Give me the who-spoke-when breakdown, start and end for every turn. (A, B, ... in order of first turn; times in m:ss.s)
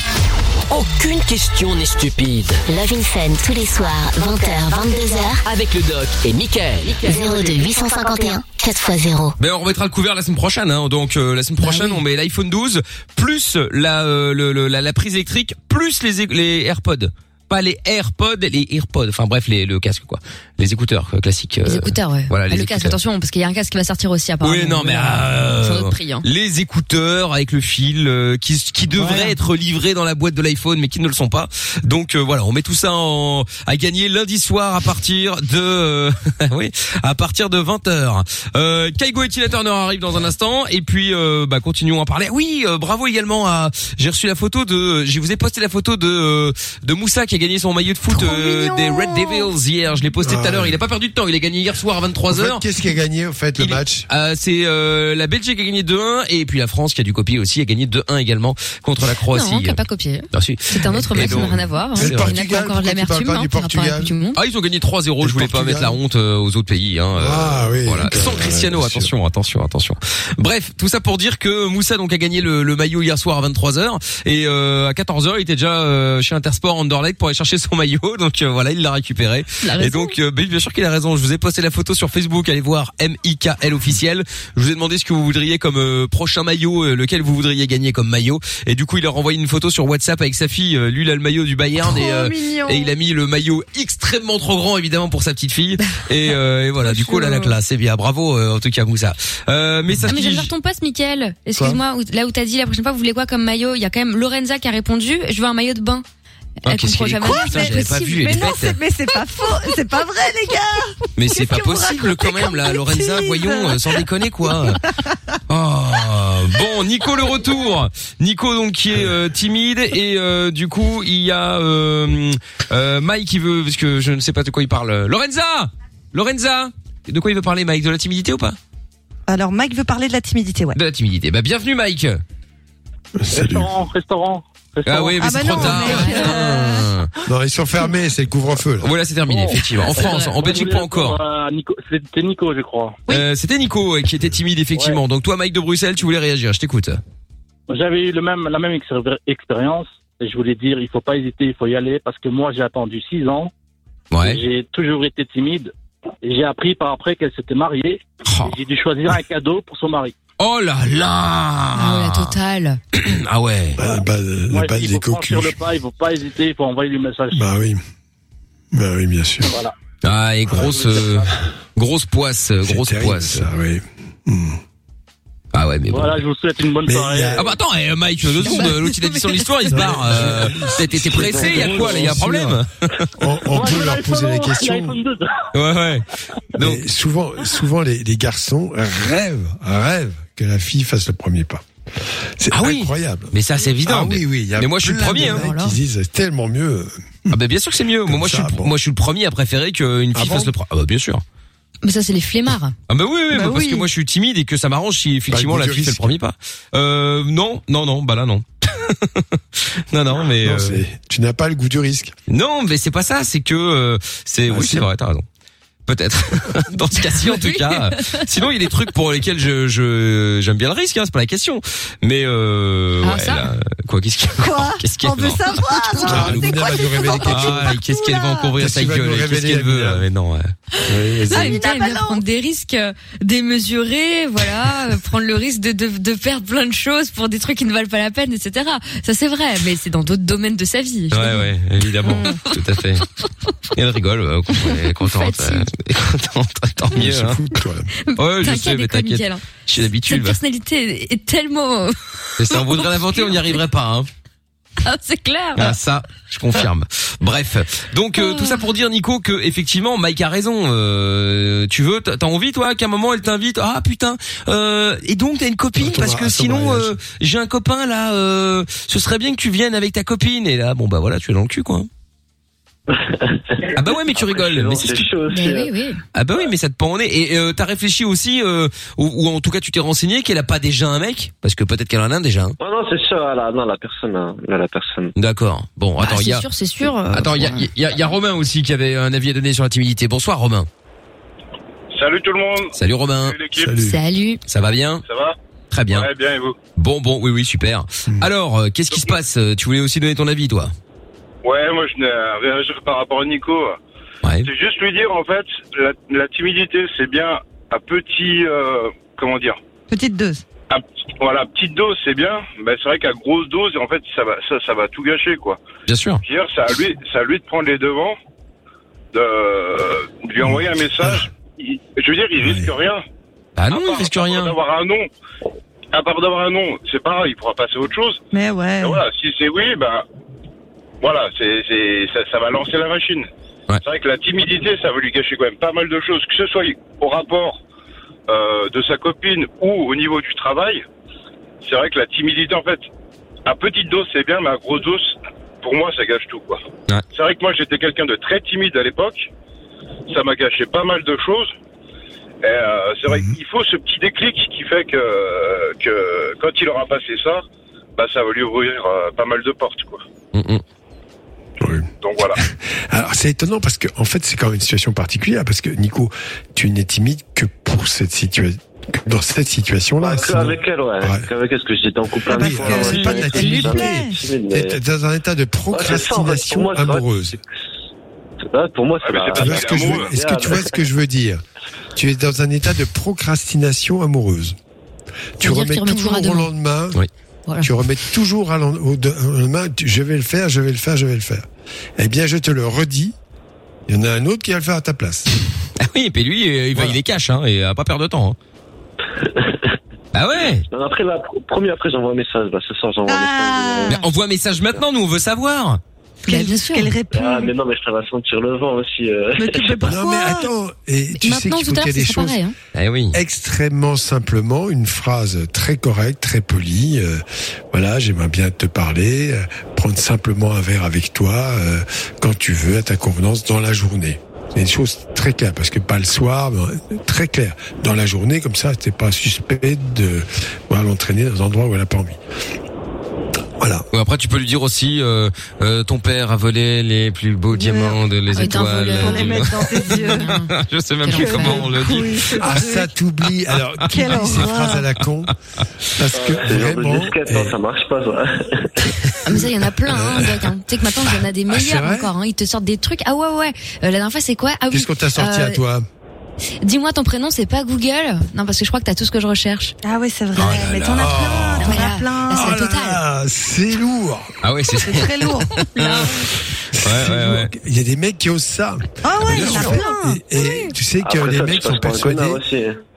0:00.7-0:02.6 A
0:02.7-0:05.4 B
0:05.4-0:07.5 A
0:07.0-0:09.4 B
0:09.4-0:23.0 C
0:11.6-0:12.0 D
0:21.6-0:26.2 D
0:24.4-0:52.6 C
0:29.0-0:29.3 D
0:48.1-0:49.5 E
0:50.2-0:50.8 F
0:52.3-0:54.1 F
0:53.6-0:59.8 C
0:59.3-1:04.4 D
1:00.3-1:02.4 C
1:01.2-1:04.1 F
1:04.4-1:40.5 C
1:05.2-1:06.0 F
1:07.2-1:09.1 F
1:19.6-1:20.2 D
1:31.8-1:32.9 E
1:37.1-1:37.5 E
1:40.0-1:46.0 D
1:46.6-1:48.6 D
1:46.6-1:48.8 C
1:47.2-1:55.2 E
1:51.2-1:54.8 C
1:55.5-2:08.6 C
2:09.3-2:10.8 E
2:10.7-2:12.2 C
2:13.2-2:13.7 F
2:13.3-2:15.9 G
2:14.9-2:17.1 C
2:15.2-2:16.9 E
2:15.8-2:16.3 D
2:17.3-2:18.9 F
2:18.8-2:21.2 C
2:19.3-2:23.0 G
2:20.0-2:20.3 D
2:23.1-2:27.0 C
2:27.7-2:33.5 G
2:34.1-2:34.4 C
2:34.2-2:35.7 G
2:36.2-2:40.1 G
2:38.3-2:38.6 C
2:40.4-2:42.3 C
2:41.8-2:42.8 D
2:43.0-2:43.8 C
2:43.8-2:45.6 F
2:43.8-2:47.4 G
2:47.3-2:47.8 F
2:48.7-2:49.6 F
2:50.0-2:53.5 C
2:50.5-2:51.3 G
2:52.6-2:54.6 F
2:55.5-2:56.2 C
2:55.9-2:57.5 G
2:56.8-2:57.5 F
2:57.4-3:03.1 C
2:58.6-2:59.4 E
2:59.7-3:02.6 F
3:01.4-3:02.0 G
3:03.2-3:05.0 F
3:03.5-3:05.5 G
3:05.5-3:06.8 C
3:06.6-3:17.4 F
3:12.5-3:15.5 C
3:15.2-3:15.8 D
3:17.3-3:21.2 C
3:18.0-3:18.7 F
3:20.1-3:20.5 F
3:21.8-3:22.8 D
3:22.9-3:30.8 C
3:23.3-3:23.9 E
3:25.3-3:26.2 F
3:30.4-3:32.2 F
3:32.3-3:35.2 C
3:34.5-3:34.9 F
3:35.9-3:46.6 C
3:37.0-3:38.2 D
3:43.0-3:43.5 D
3:44.4-3:48.5 E
3:46.0-3:47.7 F
3:47.2-3:50.5 C
3:48.6-3:50.0 F
3:50.9-3:51.6 F
3:50.9-3:52.2 E
3:51.3-4:01.5 D
4:01.1-4:03.1 C
4:02.0-4:02.4 E
4:03.7-4:07.4 C
4:04.6-4:05.7 D
4:06.9-4:07.9 F
4:08.1-4:13.4 D
4:08.2-4:10.4 C
4:12.4-4:14.1 C
4:14.8-4:15.8 D
4:15.6-4:31.9 C
4:18.2-4:18.6 D
4:25.8-4:26.9 F
4:32.9-4:35.7 H
4:33.7-4:35.1 C
4:35.3-4:36.0 D
4:36.1-4:42.6 C
4:42.6-4:45.1 H
4:45.2-4:46.5 C
4:46.0-4:47.7 D
4:47.1-4:50.7 C
4:52.0-4:52.7 I
4:52.8-4:53.4 C
4:53.3-4:53.7 I
4:53.6-4:54.0 F
4:53.8-4:54.4 D
4:54.5-4:55.0 C
4:55.1-4:55.3 I
4:55.7-4:56.1 C
4:56.0-4:56.5 I
4:56.8-5:00.7 C
5:01.4-5:03.7 I
5:04.2-5:04.5 C
5:04.5-5:09.6 I
5:09.9-5:10.4 E
5:10.7-5:15.6 I
5:15.9-5:16.2 C
5:16.3-5:18.2 I
5:19.2-5:23.0 I
5:20.4-5:21.3 F
5:22.4-5:22.7 F
5:23.6-5:24.6 C
5:23.7-5:25.1 I
5:25.9-5:28.2 I
5:28.3-5:29.1 E
5:28.8-5:30.0 I
5:31.0-5:33.2 I
5:33.8-5:37.6 I
5:38.3-5:40.8 I
5:41.6-5:42.8 I
5:43.5-5:45.1 I
5:45.6-5:46.6 I
5:47.2-5:49.3 I
5:50.1-5:51.5 I
5:52.4-5:57.4 I
5:53.1-5:53.4 F
5:58.0-6:00.0 I
6:00.3-6:00.6 C
6:01.6-6:11.3 F
6:02.0-6:02.4 I
6:10.0-6:14.8 H
6:12.3-6:14.2 E
6:12.3-6:17.4 F
6:12.8-6:13.6 C
6:15.7-6:17.1 H
6:18.5-6:20.7 H
6:19.0-6:20.1 I
6:19.3-6:21.4 F
6:22.0-6:24.6 F
6:25.4-6:27.0 F
6:25.4-6:26.5 D
6:27.6-6:33.2 F
6:33.9-6:35.4 F
6:35.8-6:38.4 C
6:36.7-6:37.0 F
6:39.2-6:39.8 H
6:40.1-6:40.7 C
6:40.7-6:44.0 H
6:43.1-6:44.0 E
6:43.9-6:45.8 C
6:46.2-6:47.5 E
6:46.3-6:46.9 D
6:47.1-6:49.9 H
6:49.4-6:50.5 E
6:49.8-6:52.4 F
6:51.2-6:52.5 D
6:52.8-6:53.2 C
6:53.1-7:12.2 F
7:13.6-7:13.9 F
7:13.9-7:22.4 C
7:17.5-7:18.0 E
7:18.3-7:20.5 D
7:19.0-7:20.3 E
7:21.0-7:21.7 D
7:21.1-7:22.9 E
7:22.4-7:25.4 F
7:23.9-7:24.4 C
7:23.9-7:24.8 E
7:25.9-7:27.6 F
7:26.1-7:28.7 H
7:29.2-7:35.6 D
7:29.3-7:30.5 F
7:31.5-7:32.1 F
7:34.7-7:35.8 F
7:36.6-7:39.8 D
7:39.8-7:42.6 E
7:40.4-7:41.7 C
7:40.9-7:41.6 F
7:41.6-7:43.0 D
7:42.3-7:44.3 F
7:44.4-7:46.2 C
7:44.7-7:46.2 E
7:46.7-7:52.4 F
7:46.8-7:47.5 C
7:49.0-7:50.6 E
7:49.2-7:49.8 C
7:49.4-7:49.9 D
7:51.0-7:52.8 H